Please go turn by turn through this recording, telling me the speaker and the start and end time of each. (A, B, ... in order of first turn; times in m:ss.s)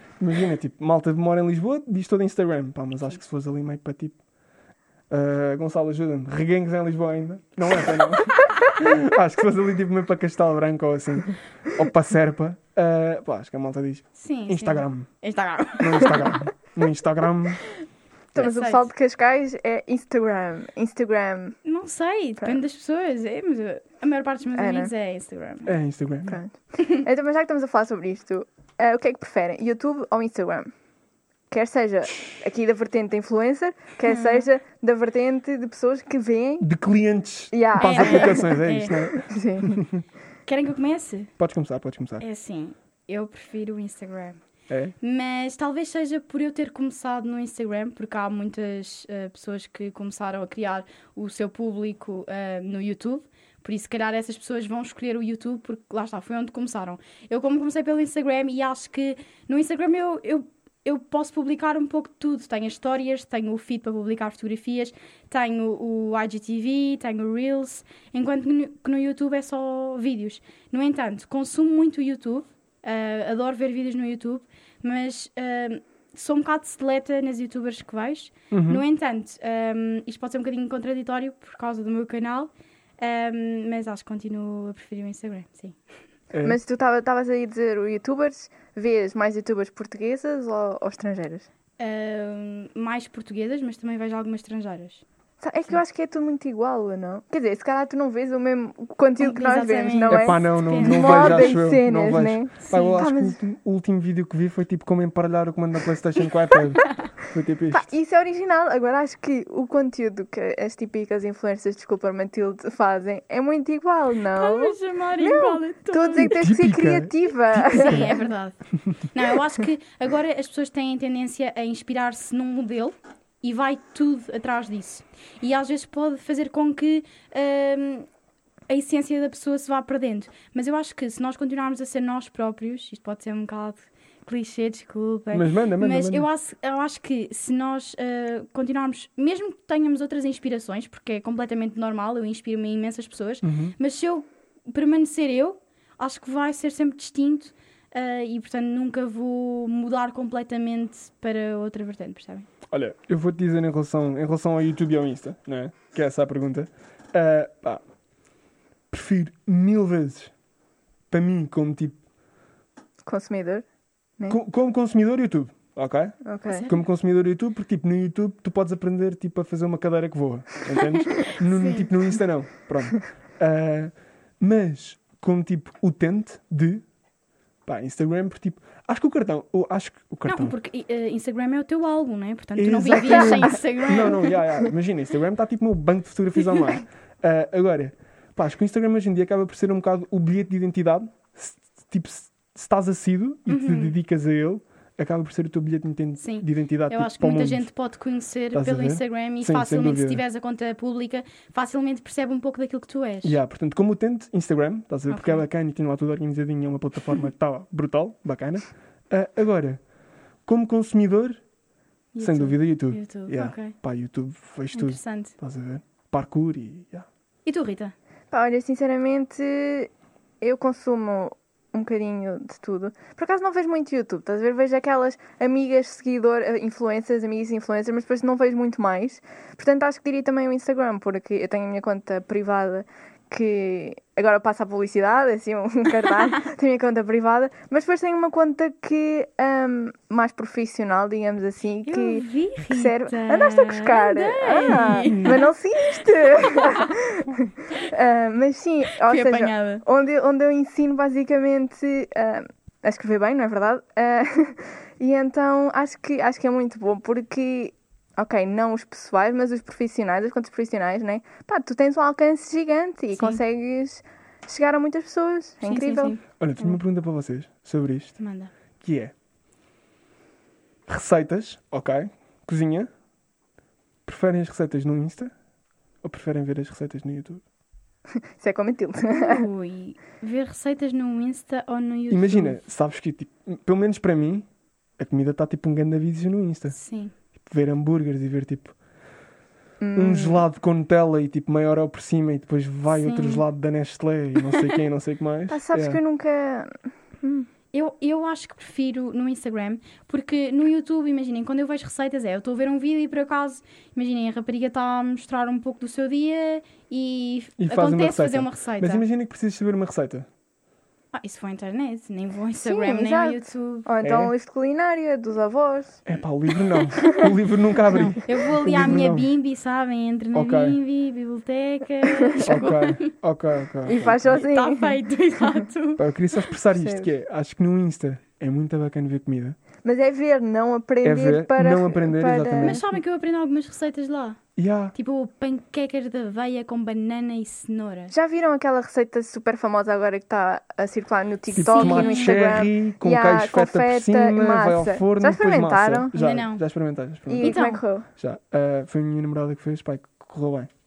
0:00.2-0:04.2 A
0:05.1-0:15.1 A
0:14.2-0:16.4 B
0:15.8-0:17.6 A
0:18.3-0:21.6 C
0:18.4-0:18.8 B
0:21.6-0:25.7 B
0:24.5-0:24.9 C
0:25.6-0:26.4 A
0:26.3-0:30.7 C
0:31.5-0:36.7 C
0:34.1-0:34.4 B
0:36.6-0:40.0 A
0:37.5-0:38.5 C
0:37.8-0:39.1 B
0:39.2-0:39.8 C
0:40.4-0:41.3 B
0:41.4-0:42.2 A
0:42.2-0:44.4 B
0:44.7-0:44.9 A
0:45.0-1:25.8 B
1:18.5-1:18.8 A
1:26.3-1:26.6 A
1:26.4-1:31.5 C
1:31.8-1:35.0 B
1:35.4-1:43.4 C
1:39.2-1:41.6 B
1:40.1-1:47.9 A
1:42.6-1:43.0 B
1:47.7-1:58.1 C
1:54.3-1:56.4 B
1:56.2-1:58.2 A
1:57.6-1:58.6 B
1:59.1-2:08.1 B
2:08.7-2:32.5 B
2:15.3-2:16.3 A
2:23.4-2:23.7 A
2:32.7-2:37.8 A
2:38.9-2:40.3 A
2:41.1-2:42.0 A
2:43.0-2:43.6 C
2:44.3-2:56.8 A
2:46.2-2:46.7 C
2:46.5-2:46.8 B
2:50.8-2:51.9 B
2:57.6-3:00.5 A
3:00.2-3:04.3 B
3:02.6-3:17.7 A
3:03.0-3:03.4 C
3:13.5-3:13.9 B
3:16.2-3:23.4 B
3:18.5-3:20.2 A
3:23.2-3:29.8 A
3:25.1-3:25.4 B
3:30.4-3:31.4 A
3:32.1-3:33.7 B
3:32.2-3:37.1 A
3:34.7-3:35.3 B
3:37.4-3:37.9 B
3:38.3-3:39.9 C
3:40.4-4:26.2 C
4:01.8-4:05.4 B
4:05.1-4:05.4 A
4:06.4-4:06.9 B
4:09.0-4:09.8 B
4:23.1-4:23.4 B
4:25.6-4:26.8 B
4:26.4-4:28.2 A
4:28.2-4:28.5 B
4:28.8-4:29.1 A
4:30.9-4:32.9 A
4:34.0-4:35.3 A
4:36.0-4:37.4 A
4:38.4-4:39.5 C
4:39.1-4:42.6 B
4:42.1-4:44.5 A
4:45.0-4:46.7 A
4:46.7-4:47.1 B
4:47.4-4:48.7 A
4:49.8-4:50.4 C
4:49.9-4:56.0 A
4:52.9-4:53.4 B
4:55.5-4:57.5 C
4:57.7-5:09.0 B
5:07.6-5:10.3 A
5:11.1-5:13.9 B
5:12.6-5:16.0 C
5:14.0-5:14.3 A
5:16.0-5:19.3 A
5:17.0-5:17.3 C
5:17.9-5:23.1 B
5:20.3-5:20.8 A
5:22.1-5:22.6 C
5:22.4-5:24.4 A
5:23.8-5:25.0 C
5:24.3-5:26.0 B
5:26.0-5:29.6 A
5:26.7-5:27.1 C
5:29.8-5:32.8 C
5:31.0-5:32.8 A
5:32.6-5:34.4 B
5:34.6-5:34.9 A
5:34.9-5:38.1 B
5:38.1-5:46.1 C
5:41.5-5:42.4 B
5:41.6-5:47.6 A
5:46.1-5:46.6 B
5:47.3-5:48.1 C
5:47.3-5:47.8 B
5:48.2-5:50.7 A